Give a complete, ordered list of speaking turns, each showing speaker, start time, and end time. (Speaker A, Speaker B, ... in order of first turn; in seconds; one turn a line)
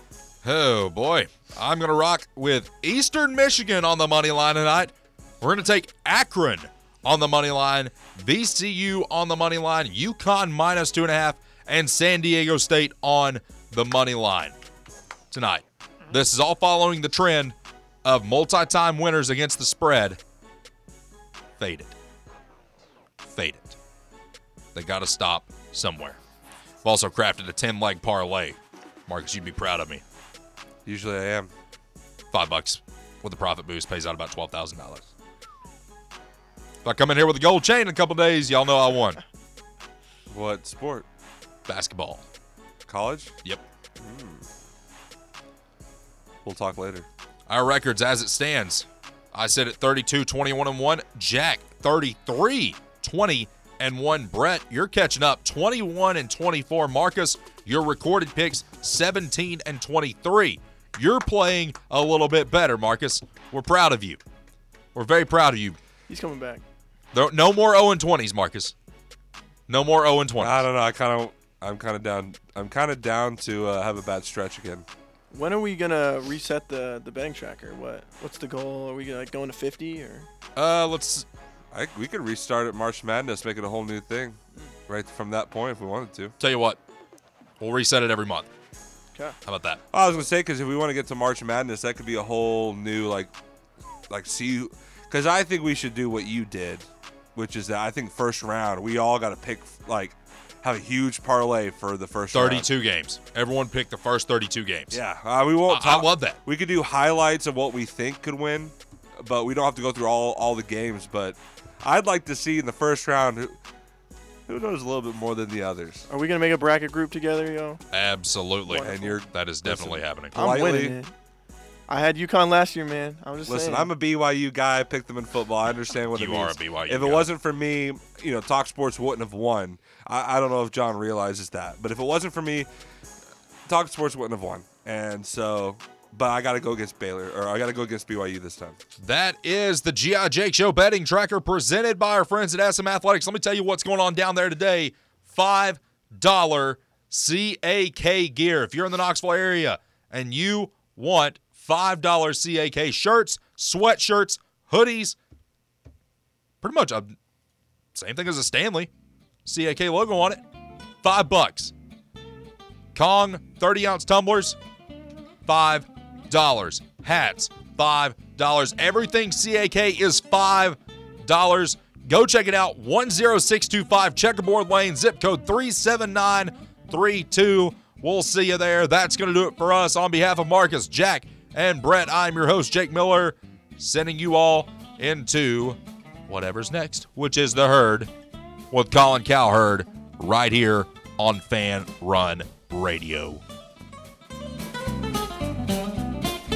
Speaker A: 0.4-14.5
Speaker A: 15.3-20.2
Speaker A: 21.6-21.9
Speaker A: 23.2-23.8
Speaker A: 24.7-26.2
Speaker A: 26.8-30.0
Speaker B: 30.9-31.5
Speaker A: 32.3-35.1
Speaker A: 36.8-39.2
Speaker B: 40.3-41.0
Speaker A: 41.7-42.2
Speaker B: 42.9-43.3
Speaker B: 44.0-44.5
Speaker B: 46.4-47.1
Speaker A: 47.5-64.2
Speaker A: 64.9-65.8
Speaker C: 66.1-66.6
Speaker A: 67.1-68.7
Speaker A: 69.7-70.7
Speaker B: 70.4-74.8
Speaker C: 75.3-80.3
Speaker A: 80.5-81.2
Speaker B: 81.7-86.3
Speaker A: 86.4-86.8
Speaker A: 87.6-88.5
Speaker A: 89.4-89.8
Speaker B: 89.9-93.3
Speaker B: 94.1-102.7
Speaker A: 102.3-105.0
Speaker B: 104.9-113.6
Speaker A: 105.7-106.4
Speaker B: 114.5-116.0
Speaker C: 116.1-117.8
Speaker A: 117.9-120.4
Speaker C: 118.7-119.2
Speaker B: 118.8-121.0
Speaker C: 120.3-121.1
Speaker C: 121.9-123.9
Speaker B: 123.5-132.7
Speaker A: 126.1-127.3
Speaker B: 133.7-138.8
Speaker A: 139.0-155.2
Speaker A: 156.6-157.2
Speaker A: 157.9-158.9
Speaker A: 159.4-160.4
Speaker A: 161.0-161.7
Speaker A: 162.9-164.6
Speaker A: 165.4-188.1
Speaker A: 188.7-193.4